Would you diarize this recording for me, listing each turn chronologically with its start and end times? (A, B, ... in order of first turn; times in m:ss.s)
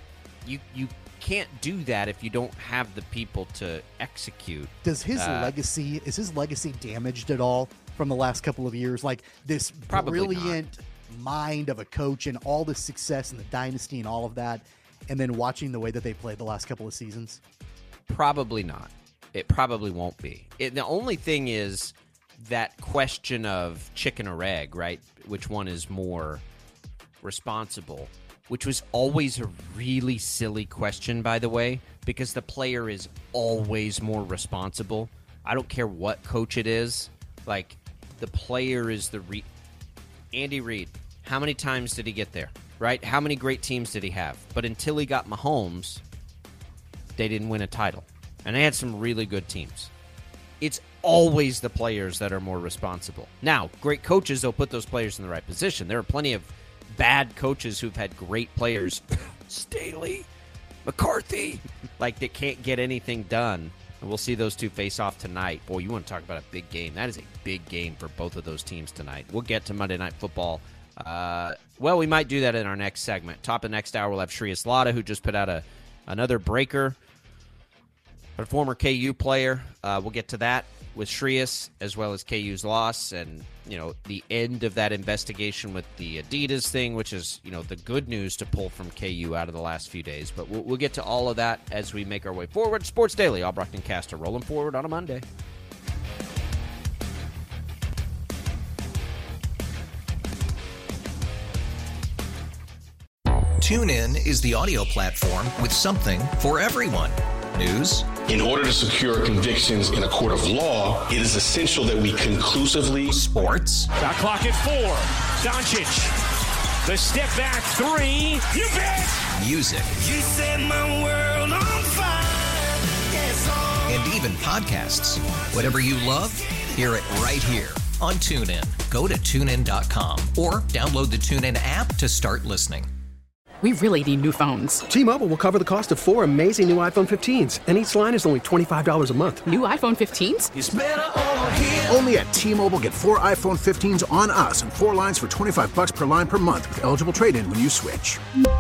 0:00.4-0:05.5 A
0:04.8-0:17.4 B
0:09.9-0:10.6 A
0:18.1-0:26.4 A
0:27.2-0:39.4 A
0:40.3-0:46.0 A
0:47.2-0:49.9 A
0:50.6-1:00.3 A
1:00.8-1:17.0 A
1:18.4-1:35.2 A
1:43.6-1:48.1 C
1:48.2-1:53.2 D
1:53.1-1:53.9 C
1:54.0-1:56.1 E
1:56.8-1:59.2 E
1:59.3-2:00.2 C
2:00.3-2:00.7 E
2:00.5-2:02.7 F
2:03.8-2:12.9 C
2:13.6-2:14.9 G
2:14.9-2:19.5 H
2:19.4-2:20.6 G
2:20.6-2:21.8 H
2:21.9-2:28.1 I